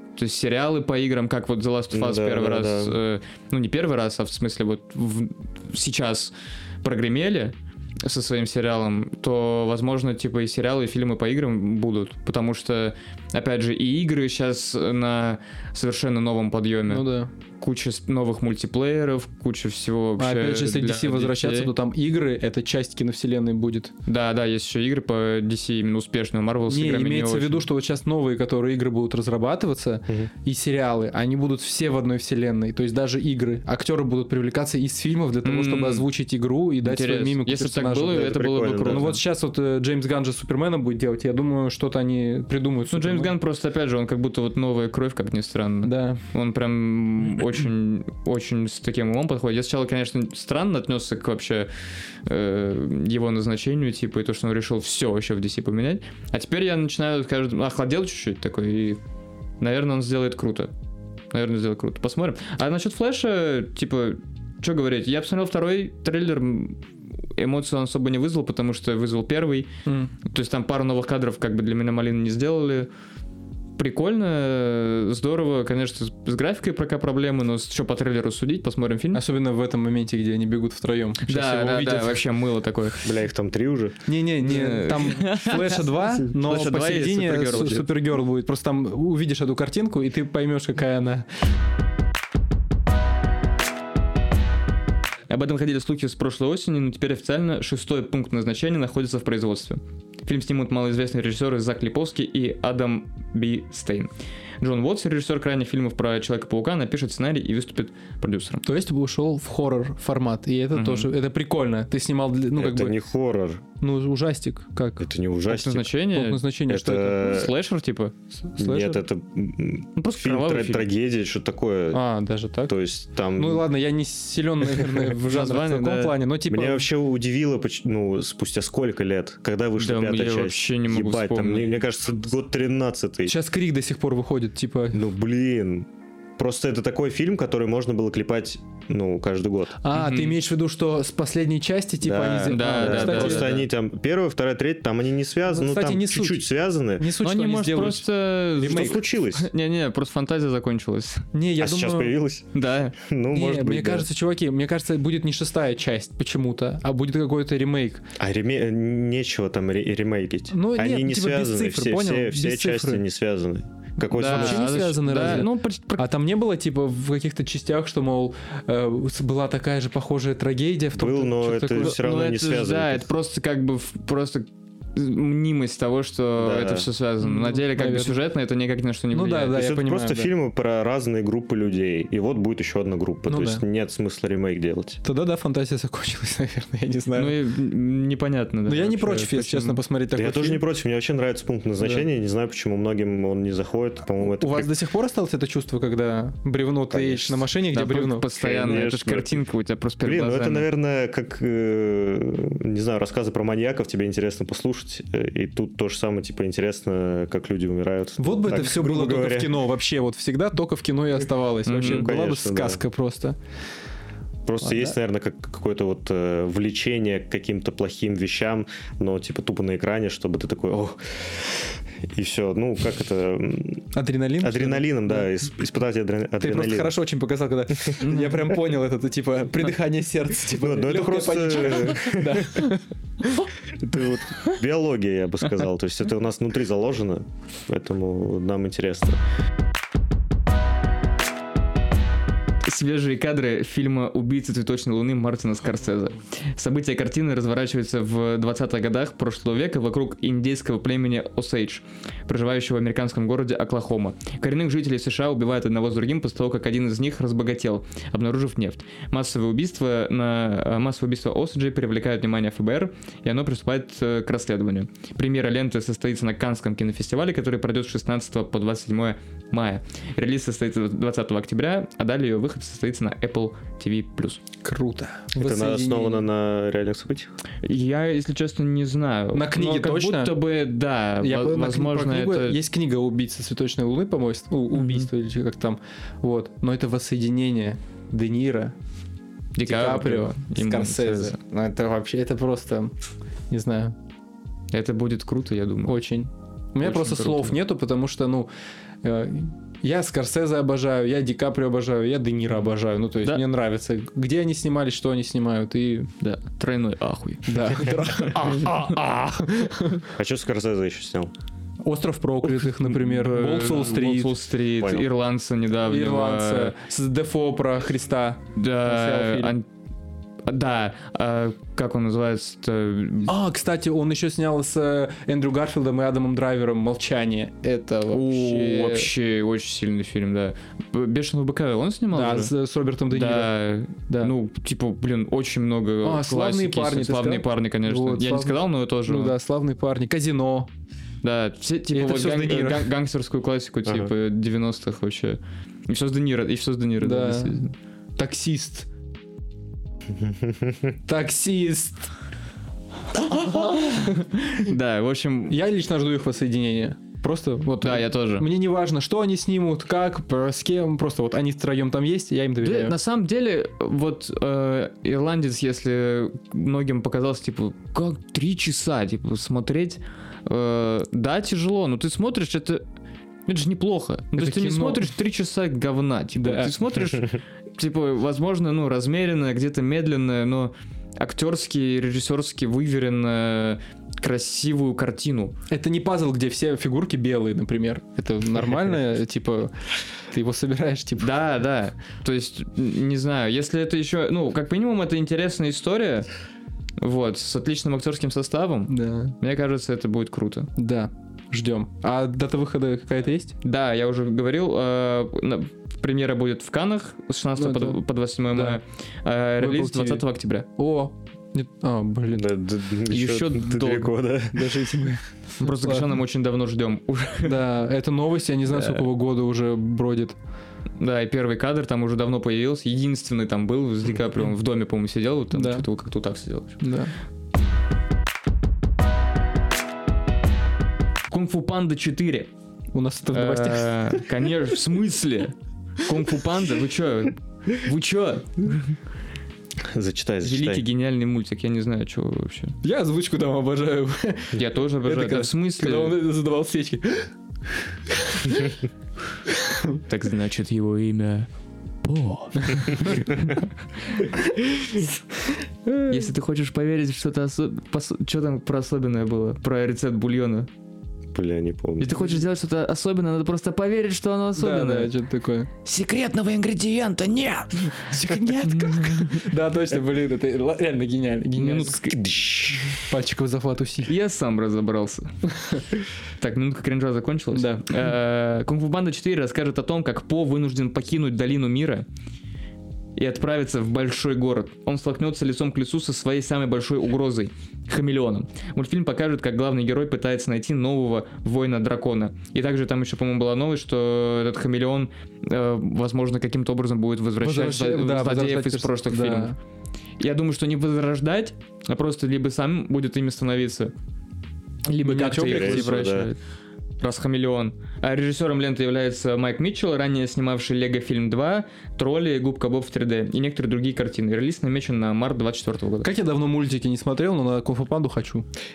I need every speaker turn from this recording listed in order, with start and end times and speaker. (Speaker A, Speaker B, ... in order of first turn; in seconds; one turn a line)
Speaker A: 0.2-17.1
Speaker B: 1.9-3.0
Speaker C: 16.9-17.3
Speaker A: 17.6-21.7
Speaker C: 20.2-23.9
Speaker A: 24.1-27.6
Speaker C: 26.7-43.3
Speaker A: 35.4-36.0
Speaker A: 36.8-39.2
Speaker B: 38.0-39.2
Speaker A: 42.9-51.7
Speaker C: 45.8-46.2
Speaker A: 52.2-59.0
Speaker A: 59.6-60.7
Speaker A: 61.3-66.8
Speaker A: 67.4-69.7
Speaker C: 69.8-70.1
Speaker A: 70.2-72.9
Speaker A: 73.8-79.2
Speaker C: 79.1-82.2
Speaker A: 81.2-83.0
Speaker B: 83.0-84.0
Speaker C: 84.0-91.3
Speaker A: 84.4-87.8
Speaker A: 95.3-108.6
Speaker C: 108.6-113.0
Speaker A: 110.7-111.1
Speaker B: 112.5-113.6
Speaker C: 113.8-115.0
Speaker B: 115.0-115.9
Speaker A: 115.5-116.4
Speaker C: 116.1-117.4
Speaker B: 116.7-117.5
Speaker A: 117.1-118.1
Speaker C: 118.5-119.0
Speaker B: 118.6-122.0
Speaker A: 120.0-120.9
Speaker C: 121.9-122.8
Speaker B: 122.7-123.7
Speaker C: 123.3-126.9
Speaker A: 125.2-126.2
Speaker B: 126.5-133.3
Speaker A: 129.8-131.8
Speaker C: 133.3-135.0
Speaker B: 134.9-139.8
Speaker C: 139.8-143.7
Speaker A: 139.9-140.3
Speaker B: 142.0-147.1
Speaker A: 142.4-143.6
Speaker C: 145.5-146.4
Speaker C: 147.0-148.1
Speaker A: 147.2-151.2
Speaker C: 148.6-149.0
Speaker B: 148.6-149.5
Speaker C: 151.3-152.2
Speaker B: 151.6-154.1
Speaker A: 152.5-152.9
Speaker C: 153.3-158.0
Speaker B: 158.2-165.3
Speaker C: 160.5-163.0
Speaker A: 164.1-166.1
Speaker C: 164.2-172.0
Speaker B: 170.9-173.1
Speaker A: 171.8-179.6
Speaker B: 176.4-176.9
Speaker C: 177.2-178.2
Speaker C: 179.1-180.3
Speaker B: 179.5-185.0
Speaker C: 183.3-183.6
Speaker C: 185.0-187.3
Speaker A: 187.1-189.8
Speaker C: 188.7-190.6
Speaker B: 190.1-194.7
Speaker C: 191.8-192.1
Speaker C: 194.2-198.8
Speaker B: 196.9-197.5
Speaker A: 197.7-200.7
Speaker B: 198.4-199.4
Speaker B: 200.0-209.6
Speaker C: 208.2-213.3
Speaker A: 211.7-212.1
Speaker B: 211.8-212.8
Speaker B: 214.4-223.9
Speaker C: 214.6-214.9
Speaker C: 223.9-225.3
Speaker B: 224.4-226.9
Speaker C: 226.4-233.5
Speaker A: 228.0-228.4
Speaker B: 230.5-232.7
Speaker B: 233.8-239.2
Speaker A: 242.6-274.4
Speaker C: 274.6-276.2
Speaker B: 275.4-277.3
Speaker A: 277.6-282.6
Speaker C: 279.3-280.4
Speaker C: 281.2-288.7
Speaker A: 284.7-285.1
Speaker A: 289.6-291.4
Speaker C: 289.6-292.9
Speaker C: 293.5-293.9
Speaker A: 294.7-296.0
Speaker C: 295.9-298.5
Speaker A: 296.8-297.6
Speaker C: 299.0-306.1
Speaker A: 306.2-308.7
Speaker C: 307.5-310.1
Speaker B: 310.1-311.3
Speaker C: 311.8-314.3
Speaker A: 312.8-316.8
Speaker B: 314.8-315.1
Speaker C: 315.8-319.5
Speaker A: 318.5-319.6
Speaker A: 320.4-323.3
Speaker C: 323.3-329.1
Speaker A: 328.1-332.5
Speaker C: 332.1-333.5
Speaker A: 333.1-339.4
Speaker C: 336.0-340.7
Speaker A: 341.2-347.7
Speaker C: 341.9-342.9
Speaker B: 343.9-344.1
Speaker C: 347.0-347.6
Speaker C: 348.2-348.9
Speaker B: 350.1-351.0
Speaker C: 351.1-352.1
Speaker A: 353.1-355.6
Speaker C: 355.5-362.9
Speaker A: 357.8-358.4
Speaker A: 362.6-372.8
Speaker A: 373.5-385.5
Speaker C: 374.3-375.1
Speaker C: 376.4-376.8
Speaker C: 385.7-389.7
Speaker C: 390.3-391.3
Speaker A: 391.2-396.3
Speaker A: 397.0-400.7
Speaker C: 398.9-399.3
Speaker C: 400.8-403.5
Speaker A: 403.6-410.6
Speaker C: 407.6-408.0
Speaker C: 408.5-408.8
Speaker C: 409.6-410.2
Speaker C: 410.8-412.5
Speaker B: 412.3-414.9
Speaker A: 413.1-414.1
Speaker C: 414.5-416.1
Speaker A: 415.6-417.6
Speaker C: 417.4-420.4
Speaker A: 418.7-419.0
Speaker A: 421.0-426.8
Speaker C: 425.5-425.9
Speaker C: 426.8-427.1
Speaker A: 431.3-432.5
Speaker C: 432.9-434.2
Speaker A: 433.3-438.9
Speaker B: 439.9-440.8
Speaker A: 440.4-442.8
Speaker C: 442.8-447.3
Speaker A: 444.5-446.2
Speaker C: 448.1-448.8
Speaker C: 449.5-450.0
Speaker A: 450.1-451.5
Speaker A: 452.0-454.3
Speaker A: 456.1-460.7
Speaker B: 461.3-462.3
Speaker A: 462.0-465.1
Speaker C: 464.6-465.7
Speaker A: 465.8-469.5
Speaker C: 468.0-472.0
Speaker A: 471.6-472.4
Speaker B: 472.1-473.0
Speaker C: 473.0-474.1
Speaker A: 474.0-475.3
Speaker A: 476.4-482.1
Speaker C: 477.5-478.1
Speaker A: 483.1-499.5
Speaker C: 497.4-499.5
Speaker A: 500.2-503.9
Speaker A: 504.9-506.4
Speaker C: 505.0-506.0
Speaker B: 505.4-506.3
Speaker A: 507.0-516.1
Speaker C: 516.0-518.4